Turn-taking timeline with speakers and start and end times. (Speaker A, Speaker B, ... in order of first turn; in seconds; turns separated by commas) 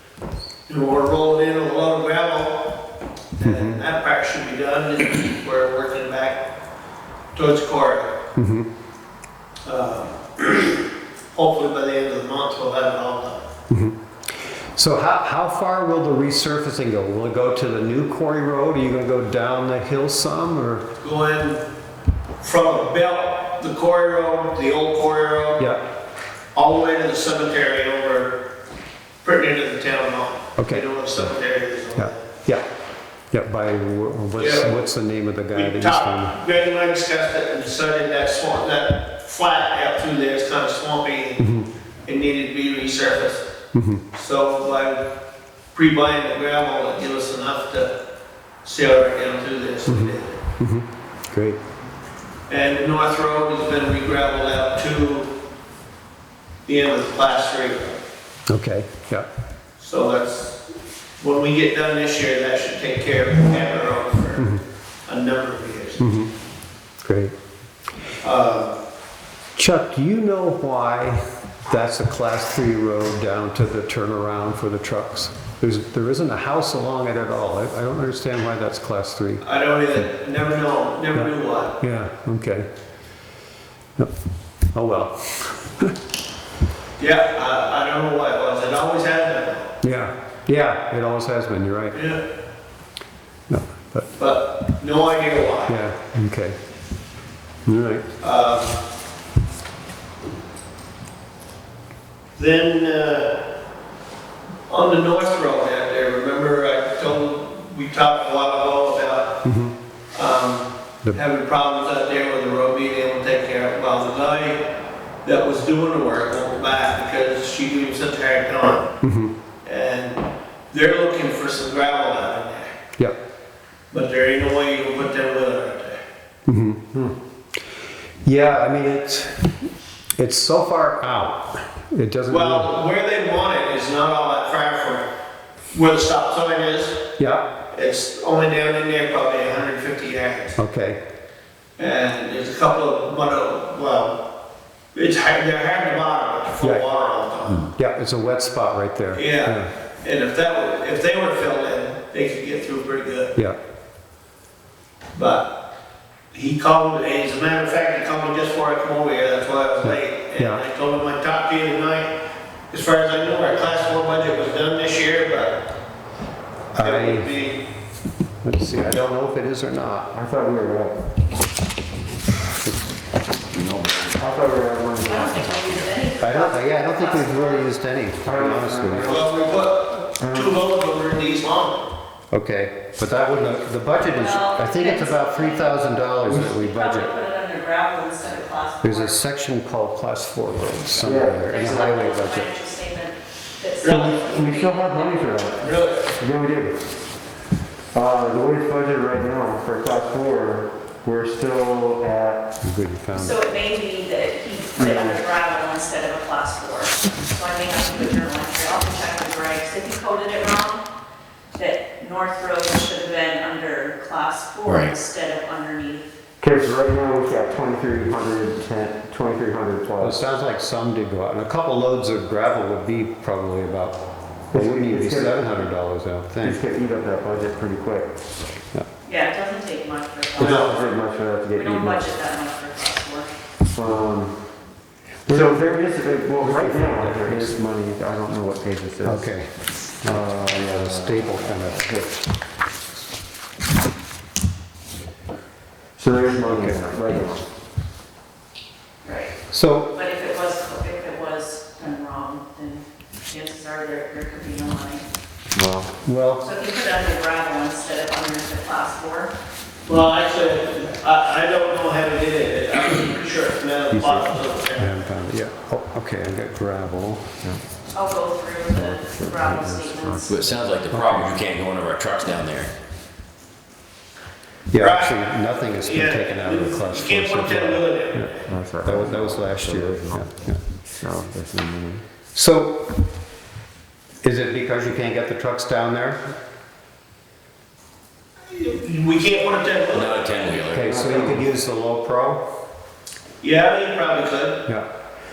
Speaker A: 0.7-2.8, Speaker B: 3.4-3.8, Speaker A: 3.4-6.5, Speaker A: 7.3-8.1, Speaker B: 8.3-8.7, Speaker A: 9.6-13.4, Speaker B: 13.7-13.9, Speaker B: 14.7-20.9, Speaker A: 21.0-21.6, Speaker A: 22.4-25.7, Speaker A: 26.5-28.5, Speaker A: 29.2-32.2, Speaker B: 30.6-30.9, Speaker B: 31.9-32.6, Speaker B: 33.3-36.4, Speaker A: 34.4-34.8, Speaker A: 35.5-41.5, Speaker B: 41.4-41.7, Speaker A: 42.0-43.5, Speaker B: 43.7-44.0, Speaker A: 44.1-45.1, Speaker A: 45.7-48.0, Speaker A: 48.6-50.4, Speaker B: 49.9-51.6, Speaker A: 52.5-55.3, Speaker A: 56.6-58.0, Speaker B: 58.5-59.3, Speaker A: 59.8-66.0, Speaker B: 64.4-64.6, Speaker B: 66.0-66.3, Speaker B: 67.0-67.3, Speaker A: 68.2-68.8, Speaker B: 69.5-79.4, Speaker A: 79.4-81.8, Speaker B: 81.8-82.7, Speaker B: 84.7-85.9, Speaker A: 87.0-89.7, Speaker B: 89.8-92.0, Speaker A: 91.9-92.2, Speaker B: 93.5-94.1, Speaker A: 94.2-95.8, Speaker B: 95.7-96.6, Speaker B: 97.7-98.0, Speaker A: 98.2-98.8, Speaker A: 102.3-103.5, Speaker A: 104.7-109.4, Speaker B: 109.4-109.7, Speaker A: 110.1-118.9, Speaker B: 119.0-119.3, Speaker A: 119.6-122.7, Speaker A: 123.9-126.0, Speaker B: 126.5-127.1, Speaker B: 128.2-129.5, Speaker B: 130.2-132.7, Speaker A: 132.3-135.1, Speaker A: 135.7-137.0, Speaker B: 137.2-137.5, Speaker A: 137.7-140.6, Speaker B: 140.6-141.0, Speaker A: 141.8-144.2, Speaker A: 144.9-147.7, Speaker B: 147.7-149.7, Speaker A: 149.1-153.3, Speaker A: 155.1-155.5, Speaker A: 156.3-162.2, Speaker B: 159.8-160.6, Speaker A: 162.7-165.6, Speaker A: 166.7-167.7, Speaker B: 166.8-167.3, Speaker B: 168.4-170.1, Speaker C: 170.1-171.0, Speaker D: 173.5-174.2, Speaker C: 174.2-175.6, Speaker E: 175.0-177.7, Speaker B: 176.2-179.2, Speaker C: 178.2-179.2, Speaker A: 179.1-181.9, Speaker C: 180.2-180.6, Speaker B: 182.3-187.1, Speaker E: 184.0-189.2, Speaker B: 188.8-192.4, Speaker C: 191.0-191.8, Speaker E: 191.5-195.5, Speaker A: 193.8-194.2, Speaker C: 193.8-196.8, Speaker A: 195.6-196.1, Speaker C: 197.9-202.5, Speaker B: 202.6-203.4, Speaker E: 203.2-210.8, Speaker C: 204.8-205.2, Speaker E: 211.5-216.0, Speaker D: 214.6-214.9, Speaker C: 216.4-220.2, Speaker B: 220.0-224.0, Speaker C: 224.5-225.7, Speaker B: 224.5-226.6, Speaker C: 226.4-228.1, Speaker E: 229.0-230.8, Speaker C: 230.4-232.0, Speaker B: 230.4-230.7, Speaker E: 231.5-233.3, Speaker C: 233.7-234.4, Speaker B: 235.2-235.6, Speaker C: 235.3-239.3, Speaker B: 236.4-237.6, Speaker B: 239.0-239.5, Speaker B: 240.0-241.9, Speaker C: 240.0-242.2, Speaker C: 246.0-247.4, Speaker B: 246.5-247.1, Speaker E: 249.0-249.3, Speaker B: 249.5-249.9, Speaker E: 249.9-255.0, Speaker C: 255.5-255.9, Speaker B: 256.0-256.5, Speaker E: 256.4-259.3, Speaker A: 259.9-265.1, Speaker B: 263.9-267.3, Speaker E: 267.9-270.3, Speaker C: 268.7-270.8, Speaker D: 270.3-272.7, Speaker B: 270.9-271.4, Speaker B: 274.7-280.6, Speaker A: 274.8-278.4, Speaker C: 278.5-282.0, Speaker B: 282.3-282.9, Speaker B: 284.2-286.2, Speaker A: 288.4-290.2, Speaker D: 289.9-291.0, Speaker B: 290.7-292.4, Speaker C: 290.9-291.5, Speaker A: 293.4-294.6